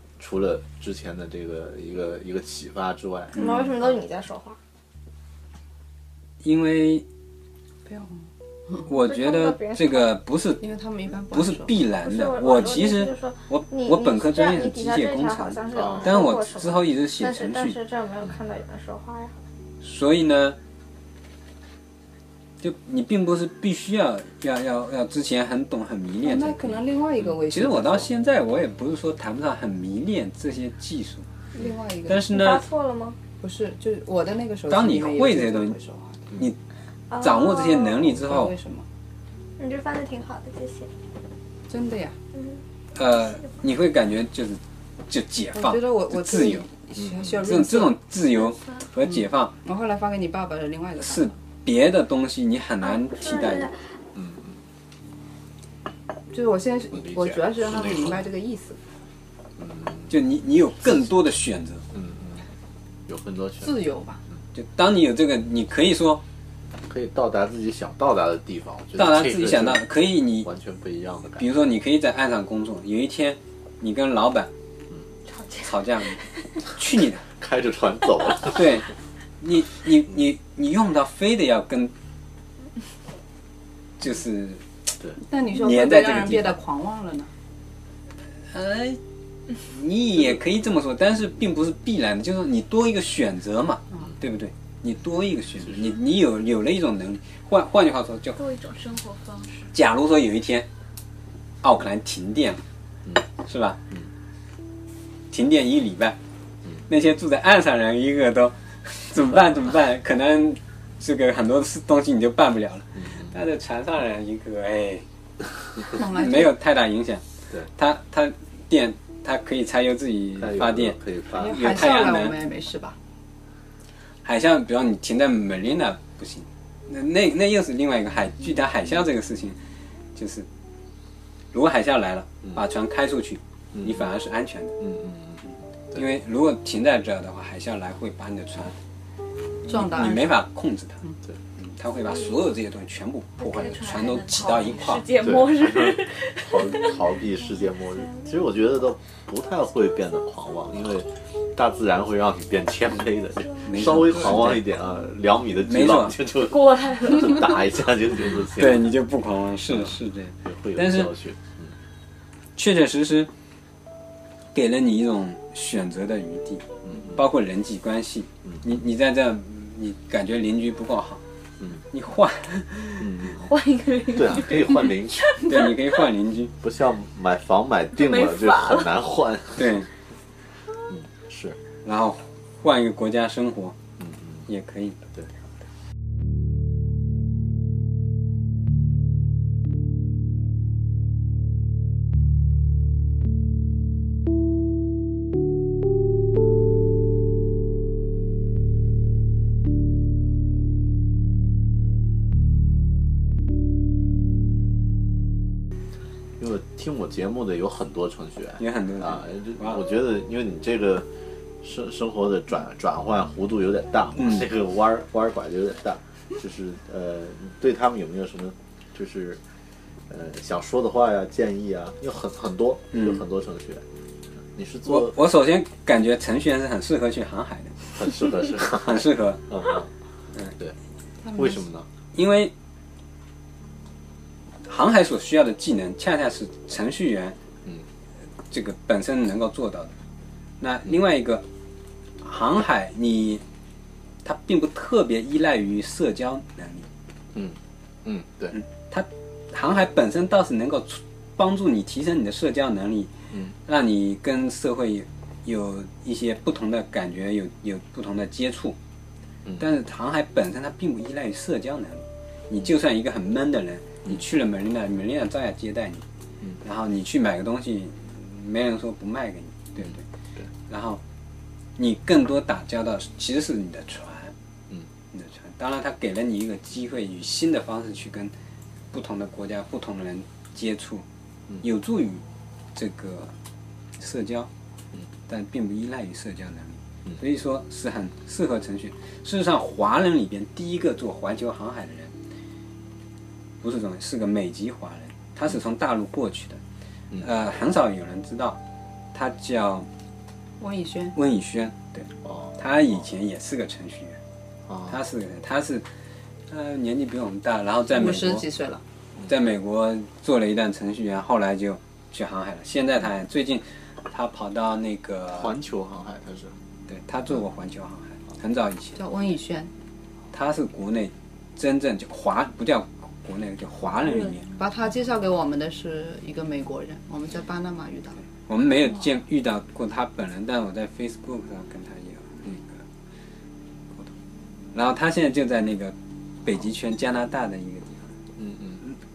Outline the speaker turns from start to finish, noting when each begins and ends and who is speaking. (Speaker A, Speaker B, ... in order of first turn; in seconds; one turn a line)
Speaker A: 0.2-3.7
Speaker B: 3.4-4.6
Speaker C: 6.4-7.0
Speaker D: 7.8-8.8
Speaker C: 8.8-10.6
Speaker B: 9.0-10.1
Speaker D: 10.6-11.7
Speaker C: 11.3-17.8
Speaker B: 12.0-19.4
Speaker A: 15.7-16.2
Speaker C: 19.8-20.6
Speaker C: 22.6-26.7
Speaker D: 26.2-28.1
Speaker C: 27.4-31.2
Speaker D: 31.5-32.3
Speaker C: 32.1-32.6
Speaker B: 32.3-33.2
Speaker D: 33.4-36.2
Speaker C: 34.7-35.8
Speaker B: 37.1-38.0
Speaker C: 37.2-38.5
Speaker D: 38.2-38.9
Speaker B: 39.6-40.9
Speaker D: 41.7-42.1
Speaker B: 42.3-42.6
Speaker C: 42.9-46.7
Speaker D: 45.5-48.0
Speaker A: 47.0-47.4
Speaker C: 47.4-49.5
Speaker D: 49.6-51.3
Speaker C: 51.0-53.7
Speaker B: 52.8-53.8
Speaker A: 54.1-54.6
Speaker D: 56.3-58.8
Speaker A: 56.9-58.2
Speaker A: 59.6-60.1
Speaker C: 60.1-61.8
Speaker A: 61.9-62.4
Speaker A: 63.1-63.8
Speaker D: 63.6-64.2
Speaker C: 64.5-66.2
Speaker A: 66.9-69.9
Speaker C: 69.0-70.5
Speaker A: 70.4-71.5
Speaker C: 71.4-74.5
Speaker E: 75.3-76.2
Speaker C: 75.6-76.2
Speaker C: 76.8-77.2
Speaker A: 77.4-78.6
Speaker C: 78.5-78.9
Speaker C: 79.4-81.9
Speaker C: 84.0-84.6
Speaker D: 85.2-87.3
Speaker C: 85.5-86.6
Speaker C: 88.5-89.0
Speaker C: 89.6-98.4
Speaker E: 98.3-99.7
Speaker C: 99.7-100.7
Speaker C: 101.6-102.6
Speaker C: 103.5-103.8
Speaker C: 105.3-106.2
Speaker C: 106.9-115.0
Speaker A: 113.0-113.3
Speaker D: 115.9-116.5
Speaker C: 116.1-117.2
Speaker C: 117.7-122.3
Speaker A: 120.4-122.1
Speaker D: 121.3-123.0
Speaker C: 124.2-129.6
Speaker C: 130.1-130.5
Speaker C: 131.5-134.8
Speaker A: 133.7-134.1
Speaker A: 134.8-135.4
Speaker C: 135.9-138.7
Speaker D: 139.7-140.4
Speaker C: 139.8-141.0
Speaker C: 141.6-145.1
Speaker E: 143.4-147.1
Speaker A: 145.2-158.9
Speaker C: 153.6-154.7
Speaker C: 155.6-156.2
Speaker E: 156.4-157.5
Speaker C: 158.6-161.1
Speaker A: 159.7-161.7
Speaker C: 162.6-163.3
Speaker C: 164.5-171.2
Speaker A: 166.8-167.2
Speaker A: 168.4-168.7
Speaker C: 171.9-173.0
Speaker A: 173.0-173.4
Speaker E: 173.4-175.9
Speaker A: 174.1-175.4
Speaker C: 175.4-176.5
Speaker A: 176.6-179.8
Speaker E: 177.9-178.9
Speaker C: 179.6-179.9
Speaker A: 180.9-181.6
Speaker C: 181.8-183.8
Speaker A: 184.0-184.4
Speaker C: 184.5-185.0
Speaker A: 206.4-211.1
Speaker C: 208.6-209.8
Speaker A: 211.6-219.4
Speaker C: 214.2-214.4
Speaker A: 220.1-223.8
Speaker C: 222.9-223.2
Speaker A: 224.5-225.2
Speaker C: 224.8-227.9
Speaker A: 227.9-229.9
Speaker C: 228.8-229.4
Speaker D: 231.2-231.6
Speaker A: 231.3-231.9
Speaker C: 232.1-232.5
Speaker C: 234.6-237.4
Speaker C: 238.5-239.9
Speaker C: 240.6-241.4
Speaker C: 242.2-243.4
Speaker C: 244.2-246.9
Speaker A: 247.3-248.6
Speaker C: 248.5-253.1
Speaker A: 253.3-253.6
Speaker C: 253.7-258.8
Speaker C: 259.6-266.0
Speaker C: 266.6-270.0
Speaker A: 269.8-270.5
Speaker C: 270.7-271.0
Speaker C: 271.8-274.3
Speaker C: 275.1-278.3
Speaker C: 278.9-281.0
Speaker C: 281.6-282.2
Speaker C: 282.7-283.3
Speaker C: 284.0-284.5
Speaker C: 285.3-292.1
Speaker C: 293.6-296.6
Speaker C: 297.2-298.6
Speaker C: 299.1-299.9
Speaker D: 300.6-301.1
Speaker C: 301.1-304.2
Speaker A: 302.2-302.5
Speaker A: 304.7-305.0
Speaker C: 304.9-305.9
Speaker C: 306.5-308.4
Speaker D: 307.9-308.8
Speaker C: 309.3-315.5
Speaker A: 315.3-316.5
Speaker C: 316.9-319.0
Speaker D: 318.9-319.7
Speaker C: 320.3-324.4
Speaker E: 324.0-324.4
Speaker D: 324.6-328.2
Speaker C: 328.5-332.8
Speaker C: 334.7-338.2
Speaker A: 338.4-338.8